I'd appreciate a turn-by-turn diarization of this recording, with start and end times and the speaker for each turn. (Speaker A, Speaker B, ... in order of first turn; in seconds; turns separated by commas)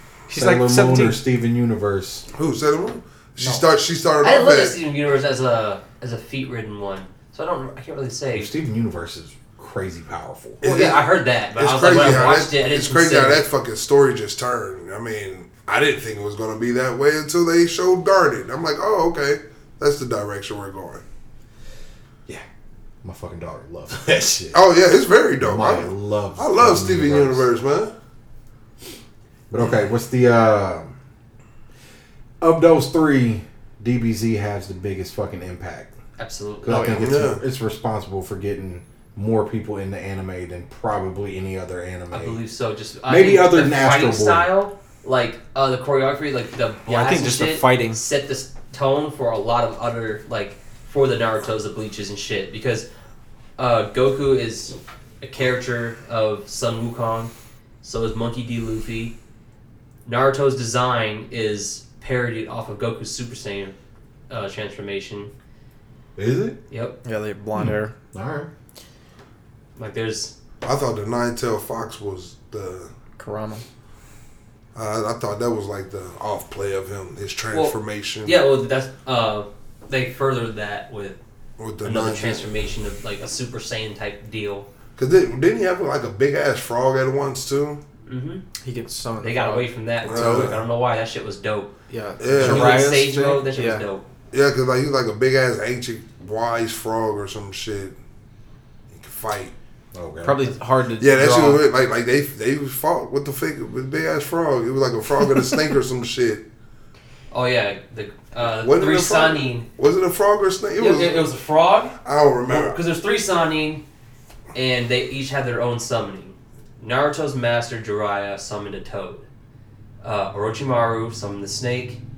Speaker A: 0.3-1.2, Speaker B: 0.3-2.3, Speaker C: 2.3-4.8, Speaker D: 4.2-8.5, Speaker B: 8.3-10.6, Speaker D: 10.6-13.4, Speaker C: 10.6-21.0, Speaker B: 23.0-24.6, Speaker C: 24.5-27.9, Speaker B: 25.4-27.5, Speaker B: 29.5-31.0, Speaker B: 32.4-35.9, Speaker D: 36.2-36.9, Speaker B: 36.6-42.4, Speaker A: 36.7-37.0, Speaker C: 37.0-37.4, Speaker D: 42.1-52.9, Speaker B: 43.1-44.5, Speaker A: 46.9-48.0, Speaker D: 53.6-57.3, Speaker D: 57.8-59.1, Speaker D: 60.0-63.8, Speaker D: 64.3-65.3, Speaker B: 66.2-66.6, Speaker D: 66.7-67.0, Speaker A: 67.0-67.9, Speaker B: 67.6-68.5, Speaker D: 69.8-70.3, Speaker C: 70.6-72.9, Speaker A: 73.2-73.6, Speaker C: 74.8-78.3, Speaker D: 77.5-81.2, Speaker C: 81.6-82.6, Speaker D: 81.8-84.7, Speaker C: 85.0-87.8, Speaker D: 88.1-88.4, Speaker A: 88.6-90.5, Speaker D: 89.2-91.7, Speaker C: 90.0-90.6, Speaker A: 91.9-93.8, Speaker C: 92.2-92.8, Speaker D: 92.4-94.0, Speaker C: 94.3-98.0, Speaker C: 98.9-99.5, Speaker B: 99.9-100.5, Speaker A: 100.2-101.6, Speaker C: 101.0-106.4, Speaker D: 107.3-109.7, Speaker C: 108.4-111.2, Speaker D: 110.8-113.8, Speaker C: 112.0-112.8, Speaker D: 114.5-119.2, Speaker D: 120.0-122.0